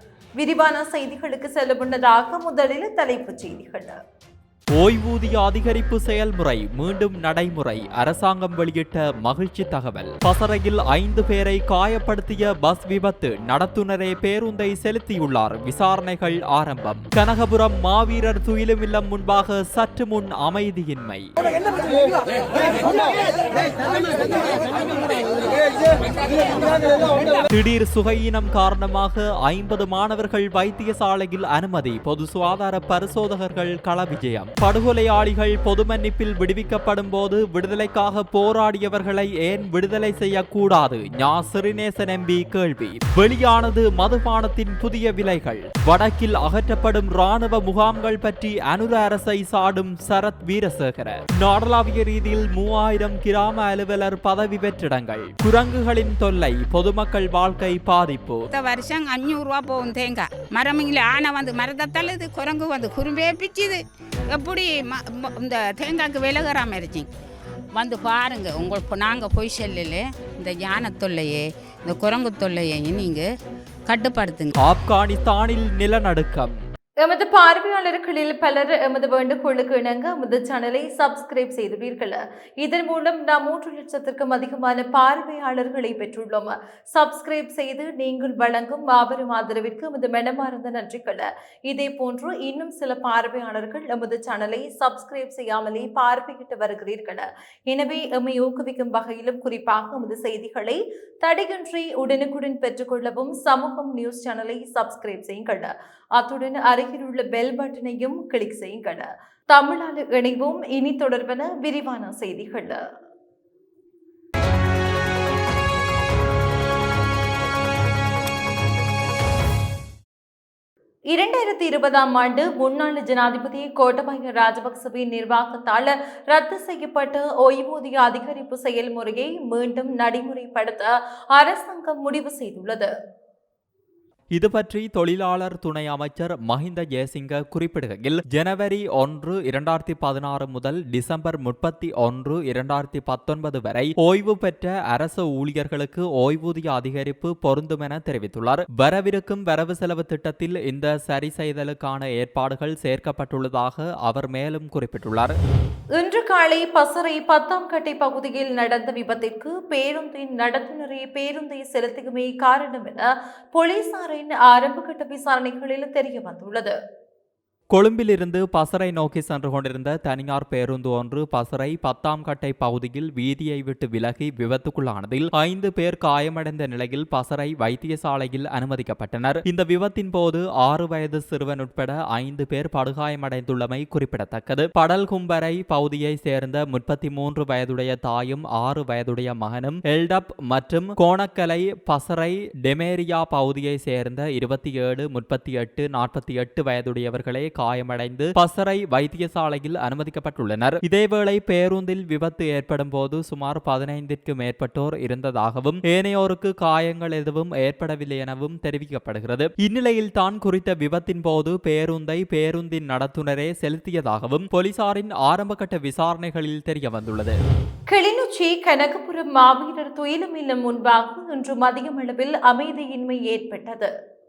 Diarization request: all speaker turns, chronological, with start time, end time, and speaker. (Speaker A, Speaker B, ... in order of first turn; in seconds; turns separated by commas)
Speaker A: 0.4-4.0, Speaker B: 4.8-21.2, Speaker B: 27.5-58.4, Speaker C: 58.5-67.1, Speaker C: 67.7-73.3, Speaker C: 73.9-74.5, Speaker B: 74.6-76.5, Speaker A: 77.0-112.8, Speaker A: 121.1-132.9, Speaker B: 134.4-155.3, Speaker A: 156.0-166.7, Speaker B: 167.8-192.3, Speaker B: 192.8-217.3, Speaker A: 217.9-223.9